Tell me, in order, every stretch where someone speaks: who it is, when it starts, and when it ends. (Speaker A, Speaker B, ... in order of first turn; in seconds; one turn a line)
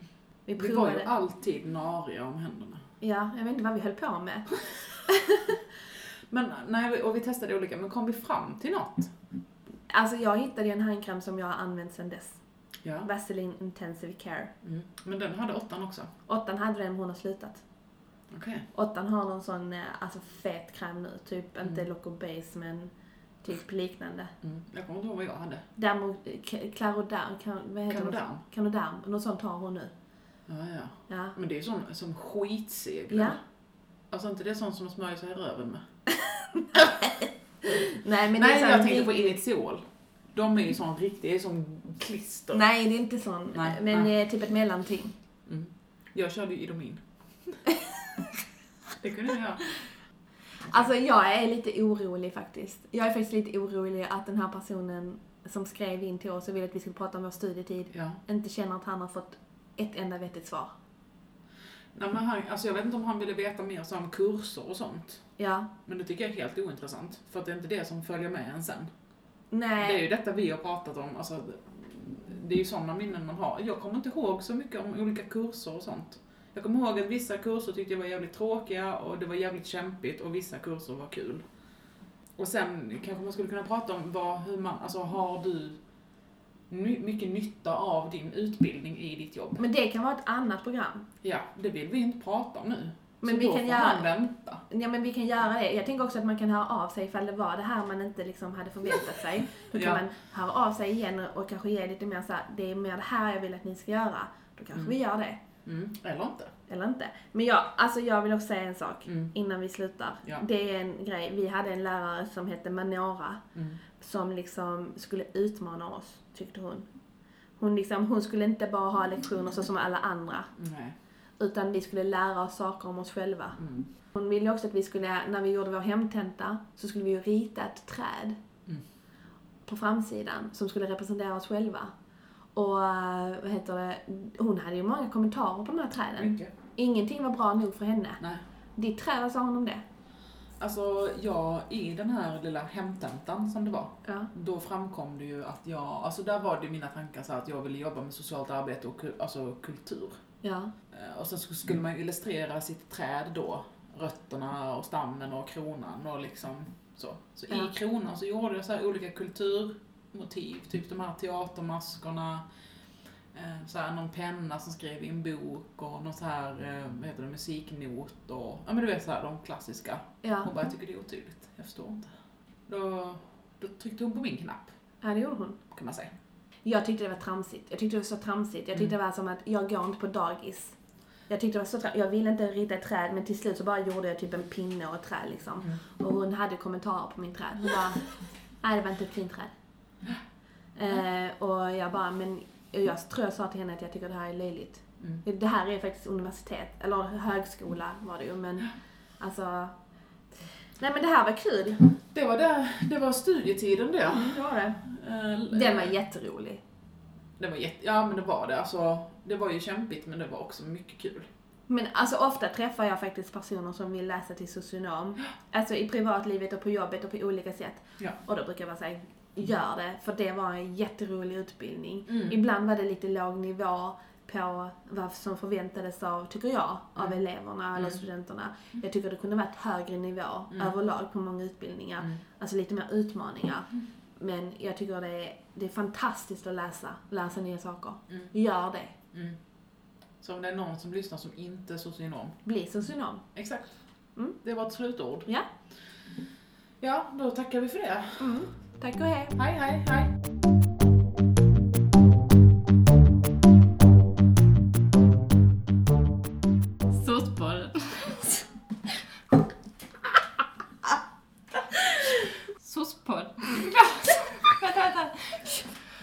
Speaker A: 0.5-1.1
Speaker B: 0.6-2.8
Speaker A: 3.0-5.6
Speaker B: 6.3-9.1
Speaker A: 9.9-12.4
Speaker B: 12.8-13.1
Speaker A: 13.0-14.5
Speaker B: 14.6-16.1
Speaker A: 16.3-17.6
Speaker B: 18.3-18.7
Speaker A: 18.7-22.9
Speaker A: 23.4-24.3
Speaker B: 24.4-25.6
Speaker A: 25.8-29.9
Speaker B: 27.9-28.4
Speaker B: 30.5-33.4
Speaker A: 31.1-31.4
Speaker A: 33.1-33.4
Speaker B: 34.1-35.8
Speaker A: 37.6-39.4
Speaker B: 38.3-42.6
Speaker A: 42.5-45.1
Speaker B: 43.5-44.1
Speaker B: 45.5-47.6
Speaker B: 49.0-49.7
Speaker A: 50.7-60.7
Speaker B: 57.9-58.2
Speaker B: 62.0-65.2
Speaker A: 65.4-65.7
Speaker B: 65.9-68.9
Speaker A: 69.5-70.0
Speaker B: 69.8-81.4
Speaker B: 82.4-85.8
Speaker B: 86.7-89.6
Speaker A: 89.6-91.1
Speaker B: 91.2-94.6
Speaker A: 93.2-94.2
Speaker A: 94.7-105.4
Speaker B: 99.7-100.0
Speaker B: 105.7-106.5
Speaker A: 106.7-113.4
Speaker B: 109.1-109.3
Speaker B: 113.5-113.8
Speaker A: 114.0-116.9
Speaker A: 117.6-120.5
Speaker B: 120.6-121.0
Speaker A: 121.4-123.6
Speaker B: 123.6-123.9
Speaker A: 124.1-128.4
Speaker A: 129.7-131.9
Speaker A: 132.6-138.2
Speaker B: 136.2-136.5
Speaker A: 138.8-139.8
Speaker B: 140.6-150.2
Speaker A: 144.1-144.3
Speaker A: 150.4-150.7
Speaker B: 150.9-162.4
Speaker B: 163.3-172.1
Speaker A: 170.2-170.5
Speaker B: 172.7-174.7
Speaker A: 175.0-175.6
Speaker B: 175.7-176.1
Speaker A: 176.7-180.8
Speaker A: 181.3-188.1
Speaker A: 188.6-189.5
Speaker A: 190.8-199.8
Speaker A: 200.8-202.0
Speaker B: 202.1-205.9
Speaker A: 204.1-204.8
Speaker A: 205.5-206.6
Speaker B: 207.4-211.3
Speaker A: 211.7-239.0
Speaker B: 222.1-222.4
Speaker B: 239.1-239.4
Speaker B: 240.2-242.4
Speaker A: 242.4-243.2
Speaker B: 243.3-243.7
Speaker B: 244.4-245.3
Speaker B: 246.8-248.4
Speaker A: 248.2-249.4
Speaker B: 249.3-250.1
Speaker C: 256.9-258.2
Speaker C: 262.6-263.8
Speaker C: 264.5-265.4